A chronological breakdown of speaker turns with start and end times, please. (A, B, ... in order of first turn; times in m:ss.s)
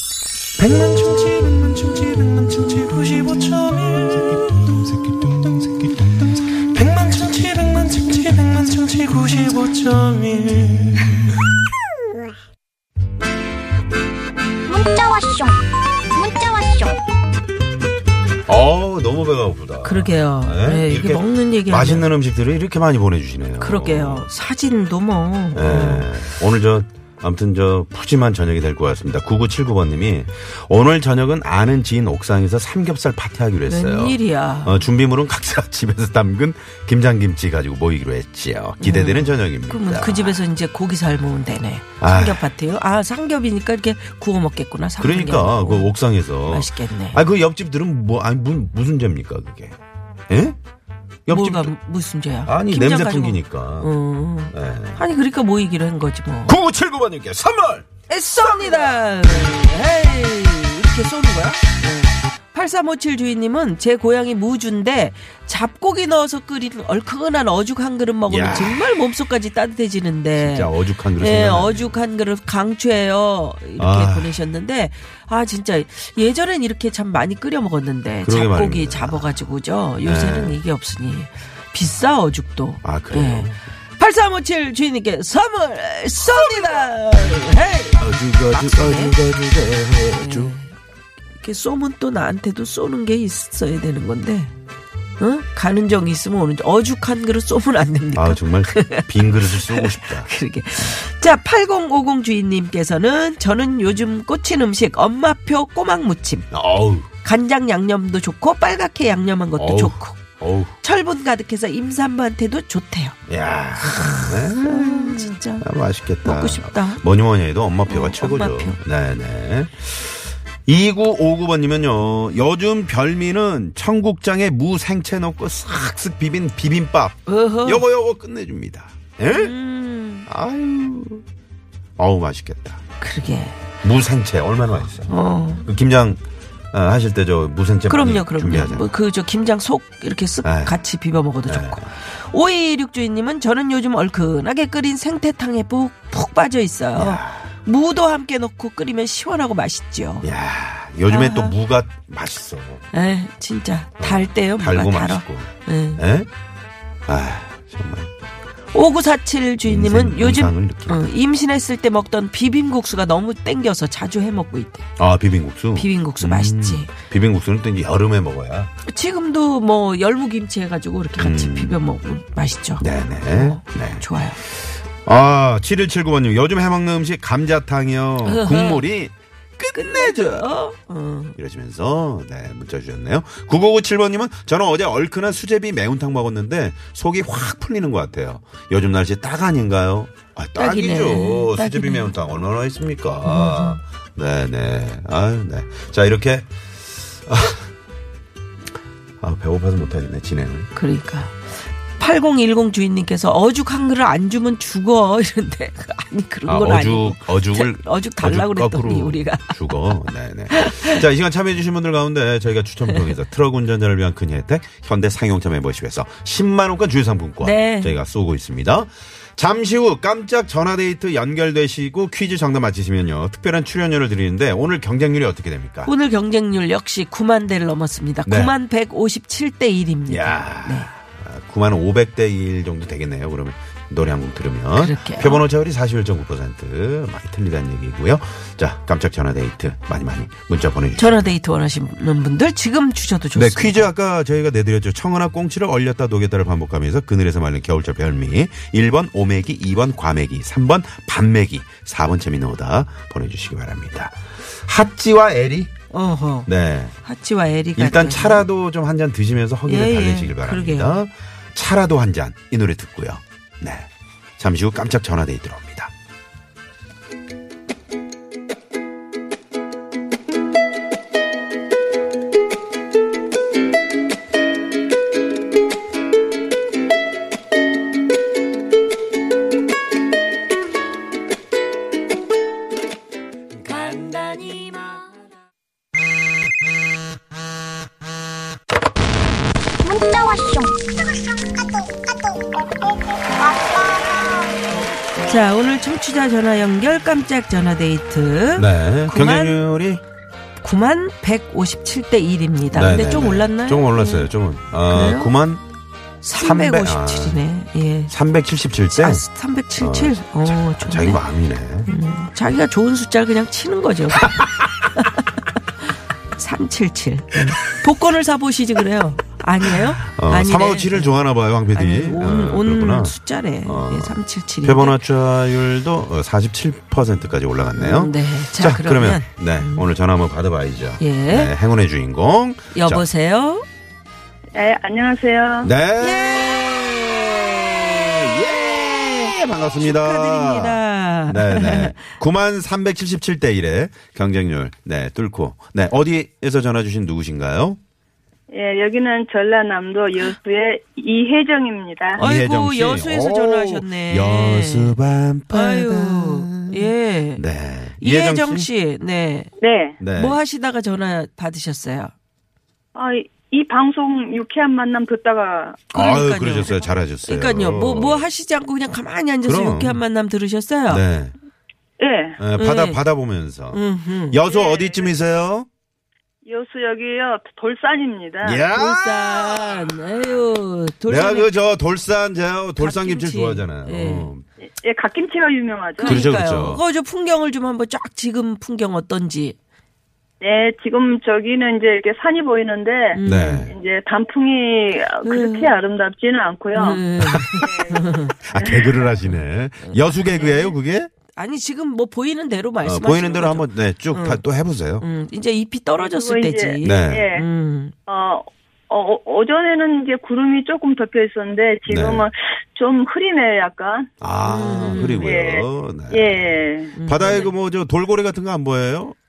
0:00.6-0:11.2 A
0:14.7-0:17.0 B
0:18.5-0:24.3 C
0:19.8-0:22.1 D
0:23.6-0:26.1 D
0:25.6-0:40.4 C
0:33.7-0:34.9 D
0:38.8-0:47.2 D
0:42.0-0:42.5 C
0:45.0-0:49.8 C
0:50.3-0:50.6 C
0:51.3-0:51.7 C
0:51.3-0:56.6 D
0:52.5-0:53.9 C
0:54.5-0:55.0 C
0:56.5-0:59.0 C
0:58.1-1:29.2 D
1:08.3-1:09.0 C
1:10.4-1:12.0 C
1:13.8-1:14.4 C
1:18.2-1:19.4 C
1:20.0-1:20.6 C
1:22.8-1:23.6 C
1:28.0-1:30.6 C
1:30.1-1:30.7 D
1:31.4-1:34.5 D
1:35.2-1:46.5 D
1:38.1-1:40.3 C
1:46.5-1:47.1 C
1:47.2-1:50.2 D
1:49.6-1:50.8 C
1:50.8-1:53.2 D
1:53.3-2:09.6 C
1:53.8-1:55.7 D
1:56.2-1:57.0 D
1:57.9-1:58.8 D
2:07.3-2:07.8 D
2:09.2-2:10.3 D
2:10.3-2:11.2 C
2:12.0-2:12.8 C
2:13.0-2:13.6 D
2:13.8-2:16.2 C
2:15.1-2:15.6 D
2:16.7-2:18.9 C
2:17.9-2:30.3 D
2:20.4-2:20.8 C
2:21.5-2:21.9 C
2:27.0-2:27.6 C
2:30.2-2:32.9 C
2:31.1-2:31.6 D
2:32.9-2:36.0 D
2:34.0-2:36.3 C
2:37.1-2:38.1 C
2:38.7-2:44.9 D
2:39.6-2:41.1 C
2:45.0-2:48.7 C
2:45.8-2:46.9 D
2:48.8-2:54.4 D
2:51.2-2:51.8 C
2:52.8-3:00.6 C
2:58.2-2:58.9 D
2:59.7-3:01.4 D
3:01.4-3:17.7 C
3:10.6-3:12.1 D
3:13.2-3:13.8 D
3:19.2-3:20.7 C
3:20.8-3:31.0 D
3:26.5-3:45.9 C
3:32.9-3:33.2 D
3:37.4-3:38.0 D
3:45.9-3:50.9 D
3:48.3-3:48.6 C
3:50.1-4:01.3 C
3:54.8-3:55.4 D
4:01.0-4:03.9 D
4:03.4-4:15.7 C
4:15.9-4:16.5 D
4:16.5-4:16.9 C
4:17.0-4:18.5 D
4:17.8-4:23.9 C
4:19.7-4:21.0 D
4:24.4-4:25.9 C
4:43.7-4:44.9 B
4:49.8-4:54.5 B
4:55.2-4:59.6 D
4:58.6-5:00.0 C
5:00.6-5:04.3 D
5:02.7-5:05.6 C
5:04.9-5:05.3 D
5:06.2-5:08.1 D
5:06.4-5:07.4 C
5:08.1-5:09.2 C
5:08.9-5:11.2 D
5:09.8-5:11.9 C
5:11.9-5:15.3 D
5:16.3-5:25.0 D
5:19.7-5:33.1 C
5:27.8-5:29.9 D
5:31.0-5:31.5 D
5:32.7-5:33.6 D
5:34.5-5:35.7 E
5:35.6-5:47.8 C
5:36.0-5:37.0 D
5:39.8-5:42.0 D
5:48.5-5:52.2 E
5:52.2-5:58.7 C
5:52.2-5:55.0 D
5:55.5-5:57.4 D
5:58.0-5:59.5 D
5:59.6-6:00.0 E
6:00.0-6:00.4 C
6:00.1-6:02.1 D
6:02.9-6:06.8 E
6:05.9-6:11.0 D
6:05.9-6:08.3 C
6:09.4-6:10.0 C
6:10.9-6:11.3 C
6:12.0-6:12.4 E
6:12.4-6:15.7 C
6:12.6-6:13.0 D
6:13.7-6:14.4 D
6:14.5-6:15.1 E
6:16.4-6:18.7 E
6:18.4-6:20.4 C
6:18.7-6:21.5 D
6:21.1-6:24.4 C
6:22.8-6:24.3 D
6:24.6-6:26.3 E
6:26.0-6:26.8 C
6:26.0-6:29.6 D
6:30.4-6:37.0 E
6:33.1-6:33.7 D
6:33.2-6:33.7 C
6:35.2-6:35.8 D
6:36.7-6:38.3 D
6:37.2-6:37.6 C
6:37.6-6:39.0 E
6:38.4-6:41.1 C
6:39.3-6:40.8 D
6:41.3-6:44.4 D
6:42.8-6:45.1 C
6:45.0-6:47.9 D
6:46.0-6:47.5 E
6:46.8-6:47.3 C
6:48.1-6:54.1 E
6:51.9-6:52.3 C
6:54.2-6:59.2 C
6:54.4-6:55.3 D
6:54.7-6:57.0 E
6:57.0-6:57.5 D